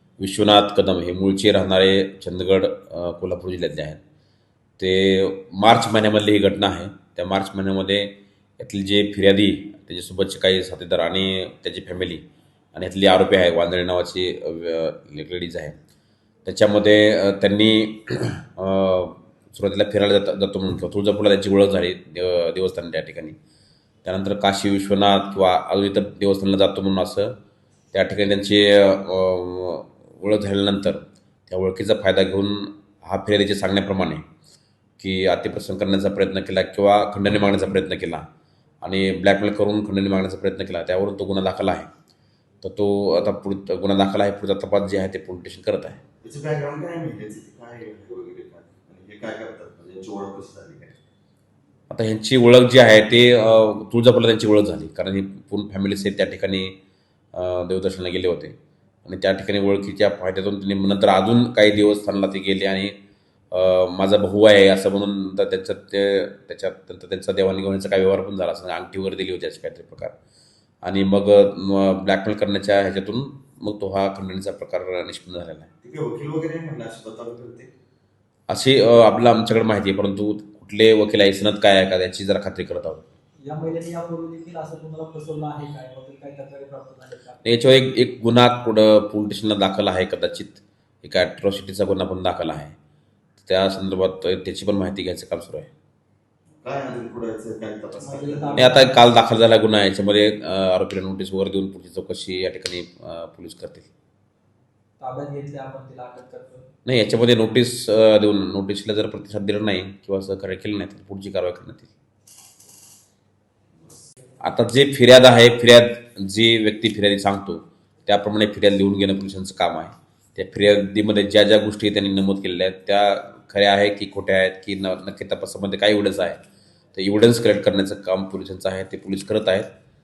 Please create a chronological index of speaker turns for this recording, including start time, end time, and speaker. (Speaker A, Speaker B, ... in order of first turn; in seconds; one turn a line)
Speaker A: 0.2-4.0
Speaker A: 4.8-15.8
Speaker A: 16.4-23.4
Speaker A: 24.0-27.3
Speaker A: 27.9-34.2
Speaker A: 35.0-38.3
Speaker A: 38.8-41.9
Speaker A: 42.6-46.0
Speaker B: 46.2-51.0
Speaker A: 51.9-56.8
Speaker A: 57.3-63.0
Speaker A: 63.5-70.2
Speaker A: 70.8-75.7
Speaker B: 75.8-77.7
Speaker A: 78.5-83.1
Speaker C: 83.4-87.4
Speaker A: 87.4-92.8
Speaker A: 93.4-95.7
Speaker B: 96.6-98.8
Speaker C: 98.0-99.0
Speaker A: 98.6-103.9
Speaker C: 105.0-106.7
Speaker A: 106.8-111.9
Speaker A: 114.4-126.4
Speaker A: 127.0-129.7